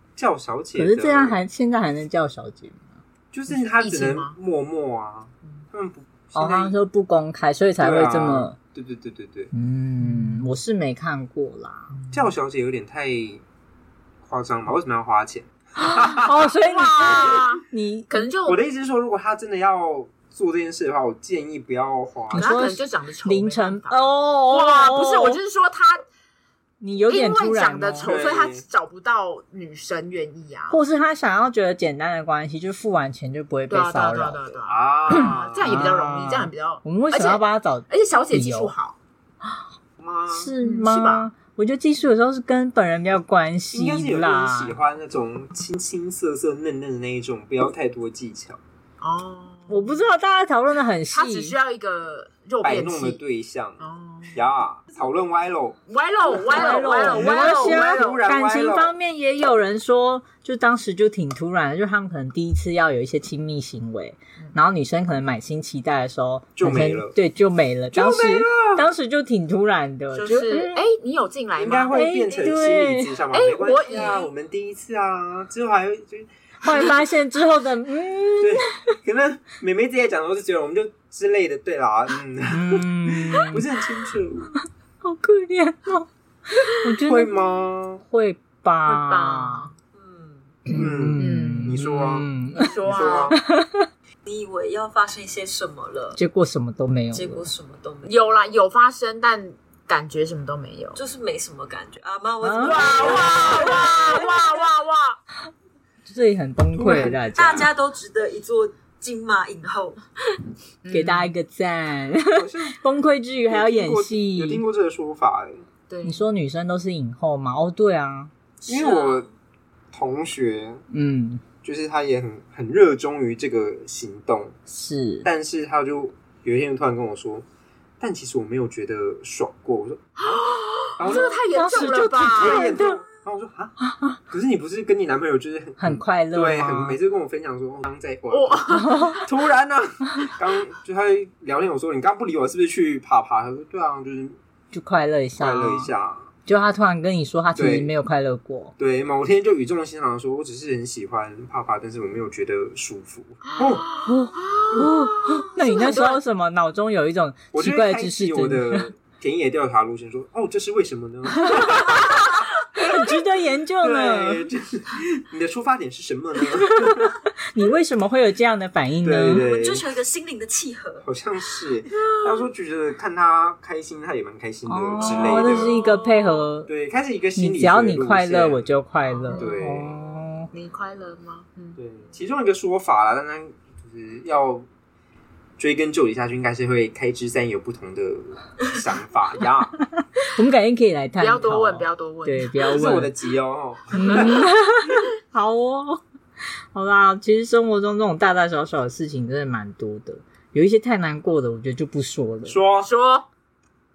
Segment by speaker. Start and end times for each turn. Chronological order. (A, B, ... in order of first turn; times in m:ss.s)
0:00.2-0:01.4 A
0:00.8-0:02.9 B
0:03.3-0:06.8 A
0:03.7-0:04.3 C
0:06.3-0:08.6 B
0:07.8-0:09.5 A
0:09.5-0:11.9 B
0:12.1-0:13.4 A
0:14.2-0:16.4 A
0:15.8-0:18.3 B
0:16.5-0:18.6 C
0:18.4-0:22.5 A
0:22.3-0:25.4 B
0:22.3-0:26.0 C
0:26.8-0:28.1 B
0:27.1-0:30.8 C
0:28.0-0:28.6 A
0:30.7-0:34.4 B
0:33.7-0:39.0 C
0:34.7-0:35.8 A
0:35.1-0:38.7 B
0:40.0-0:40.5 A
0:40.3-0:44.8 B
0:40.6-0:41.3 C
0:43.7-0:48.6 A
0:49.0-0:50.1 C
0:49.7-0:51.6 B
0:51.1-0:53.2 C
0:52.6-0:55.8 A
0:53.8-0:54.4 C
0:55.9-0:58.2 C
0:56.3-0:58.9 A
0:56.5-1:10.8 B
1:06.6-1:07.1 A
1:07.9-1:08.8 A
1:10.1-1:12.1 C
1:11.6-1:16.9 A
1:11.9-1:13.2 B
1:13.3-1:14.3 C
1:16.6-1:18.8 B
1:18.4-1:24.5 A
1:22.5-1:23.6 B
1:25.0-1:26.1 B
1:26.7-1:27.3 B
1:27.0-1:28.0 A
1:28.0-1:29.7 B
1:28.9-1:29.7 C
1:29.9-1:30.6 D
1:30.7-1:33.4 A
1:30.7-1:33.9 B
1:31.2-1:31.8 C
1:32.5-1:33.4 C
1:34.2-1:36.2 D
1:36.2-1:37.5 B
1:37.1-1:38.4 D
1:38.0-1:41.0 C
1:40.9-1:44.2 D
1:42.4-1:44.1 B
1:42.6-1:45.2 C
1:46.0-1:47.7 B
1:46.8-1:47.1 A
1:46.9-1:50.4 D
1:50.8-1:51.3 C
1:50.9-1:54.6 B
1:52.3-1:52.8 A
1:53.5-1:55.6 A
1:55.9-1:56.2 C
1:56.0-1:58.3 B
1:58.6-1:59.3 A
1:58.7-1:59.3 D
1:59.9-2:00.8 A
2:00.9-2:01.4 B
2:01.6-2:04.6 A
2:04.7-2:05.3 B
2:05.2-2:07.4 A
2:08.0-2:13.8 A
2:10.2-2:12.6 C
2:11.1-2:13.0 B
2:13.9-2:14.2 B
2:14.3-2:24.4 A
2:15.8-2:17.0 B
2:18.3-2:19.3 C
2:18.8-2:19.2 B
2:24.7-2:25.9 B
2:25.4-2:26.3 A
2:26.4-2:28.7 B
2:27.6-2:27.9 A
2:28.8-2:33.9 A
2:33.5-2:36.2 C
2:34.0-2:38.9 B
2:37.5-2:42.1 A
2:41.4-2:42.2 B
2:42.7-2:44.5 B
2:42.8-2:43.2 A
2:43.8-2:47.2 A
2:46.7-2:49.4 B
2:49.0-2:49.8 A
2:49.3-2:51.0 D
2:51.0-2:55.8 A
2:54.7-2:56.7 B
2:55.3-2:56.3 C
2:56.7-2:58.7 A
2:57.4-3:00.5 B
2:59.1-2:59.6 C
2:59.3-3:00.0 A
3:00.5-3:01.8 C
3:01.8-3:04.7 A
3:05.6-3:09.8 A
3:09.9-3:13.1 B
3:11.2-3:12.7 C
3:12.6-3:14.5 A
3:13.9-3:16.0 B
3:16.7-3:22.6 B
3:22.4-3:22.9 A
3:22.8-3:23.3 C